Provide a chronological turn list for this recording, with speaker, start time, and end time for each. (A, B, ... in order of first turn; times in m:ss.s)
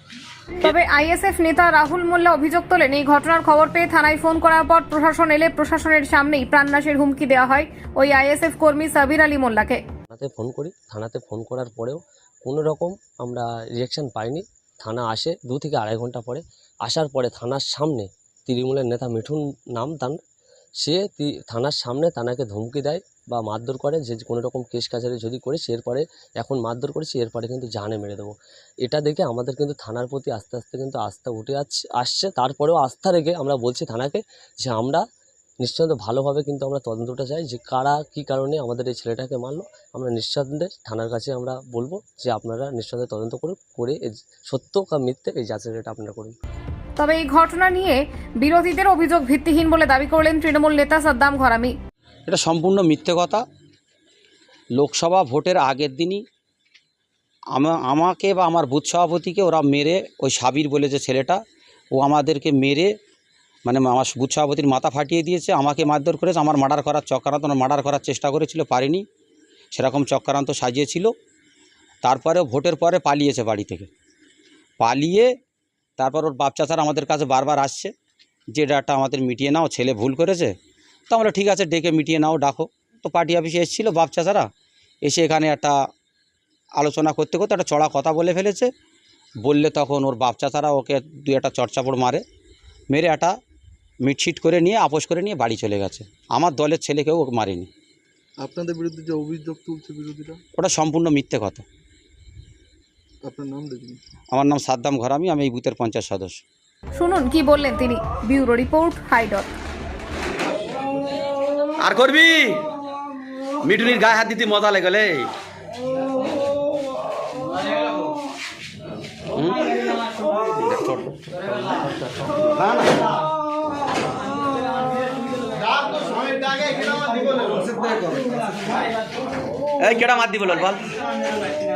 0:00.6-0:09.8 A
0:10.1-0:20.2 B
0:20.8-0:35.0 B
0:35.6-0:46.4 B
0:47.0-0:51.8 A
0:52.3-0:53.4 C
0:54.8-0:56.2 C
0:57.6-1:01.4 C
1:02.0-1:02.9 C
1:03.6-1:09.1 C
1:09.7-1:11.1 C
1:12.0-1:13.9 C
1:14.8-1:15.3 C
1:16.0-1:17.9 C
1:18.5-1:20.5 C
1:21.1-1:24.5 C
1:25.0-1:25.8 C
1:26.8-1:28.7 C
1:29.4-1:32.2 C
1:32.9-1:33.4 C
1:34.0-1:37.7 C
1:38.4-1:40.4 D
1:40.6-1:41.6 C
1:43.2-1:44.0 D
1:44.3-1:46.4 C
1:47.0-1:49.5 A
1:51.8-1:52.6 C
1:53.6-1:55.3 C
1:59.3-1:59.8 C
2:00.5-2:03.0 C
2:05.5-2:08.4 E
2:09.8-2:10.8 C